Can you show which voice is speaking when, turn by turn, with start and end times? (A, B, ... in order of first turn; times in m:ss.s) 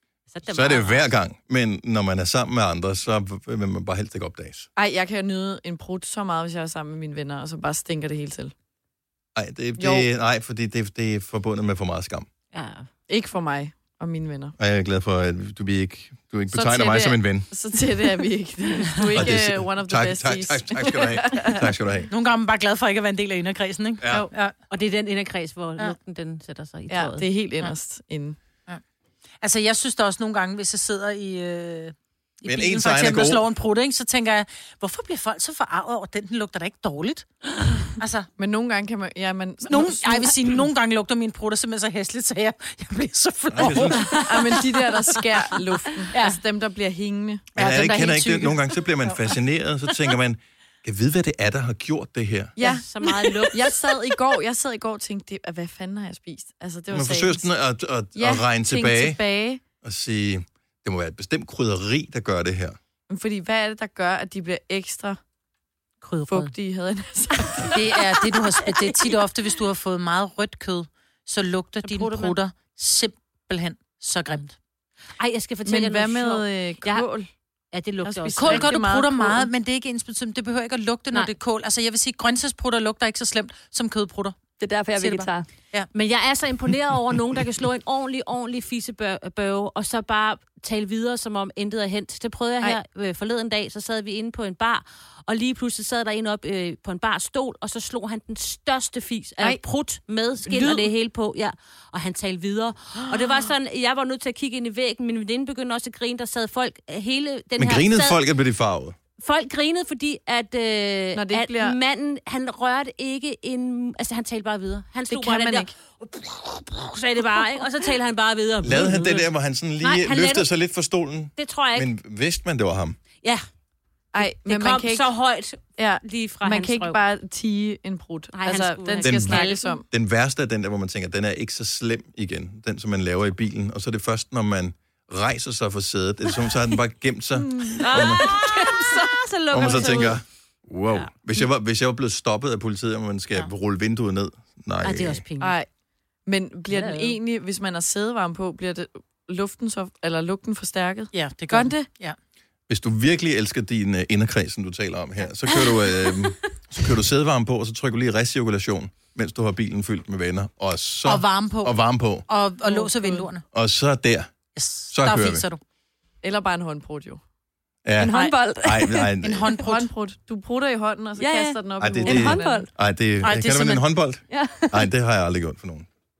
0:00.3-0:01.1 A
0:00.5-0:04.7 B
0:04.8-0:08.5 C
0:09.3-0:12.3 B
0:09.8-0:10.1 C
0:12.5-0:12.9 A
0:13.1-0:14.5 C
0:14.6-0:17.5 B
0:16.5-0:21.7 C
0:19.1-0:22.1 B
0:22.1-0:24.5 D
0:24.0-0:24.3 B
0:24.7-0:27.3 A
0:26.9-0:28.4 C
0:29.4-0:37.3 D
0:32.4-0:33.4 B
0:38.0-0:38.3 D
0:38.4-0:40.3 C
0:39.7-0:44.8 D
0:43.5-0:44.2 B
0:43.7-0:44.6 A
0:44.2-0:47.6 C
0:46.1-0:46.4 A
0:47.6-0:52.6 B
0:47.6-0:49.3 D
0:52.6-0:52.9 C
0:52.6-0:53.8 A
0:53.5-0:57.5 C
0:56.9-0:59.2 B
0:58.1-0:59.6 C
0:59.8-1:02.8 B
1:03.1-1:05.2 C
1:06.0-1:06.5 A
1:06.3-1:07.8 C
1:07.7-1:14.6 D
1:11.8-1:12.4 A
1:15.2-1:17.0 A
1:15.6-1:17.3 C
1:17.7-1:18.7 A
1:18.0-1:19.5 C
1:18.4-1:24.4 D
1:24.6-1:25.5 E
1:25.0-1:25.9 D
1:25.9-1:48.2 A
1:40.4-1:40.9 C
1:43.1-1:43.4 C
1:47.6-1:49.0 B
1:49.2-1:59.3 A
1:51.2-1:51.8 C
1:55.1-1:55.7 C
1:58.6-2:03.0 B
1:59.8-2:00.5 A
2:01.4-2:01.9 A
2:04.1-2:05.1 C
2:04.2-2:07.0 A
2:05.8-2:09.8 C
2:08.3-2:09.8 A
2:09.0-2:18.3 B
2:17.4-2:19.8 C
2:17.8-2:20.2 A
2:19.5-2:25.2 B
2:24.8-2:25.5 A
2:25.4-2:25.7 C
2:26.2-2:31.8 C
2:26.7-2:27.2 A
2:31.1-2:32.2 D
2:32.7-2:42.2 B
2:41.0-2:43.4 D
2:42.6-2:43.3 C
2:43.5-2:44.3 B
2:44.5-2:45.6 D
2:44.9-2:45.4 B
2:46.2-2:47.2 C
2:47.8-2:49.5 B
2:48.0-2:49.1 E
2:49.2-2:49.9 D
2:49.6-2:52.6 C
2:51.2-2:52.7 E
2:51.8-2:55.9 B
2:53.2-2:53.8 D
2:54.3-2:54.8 E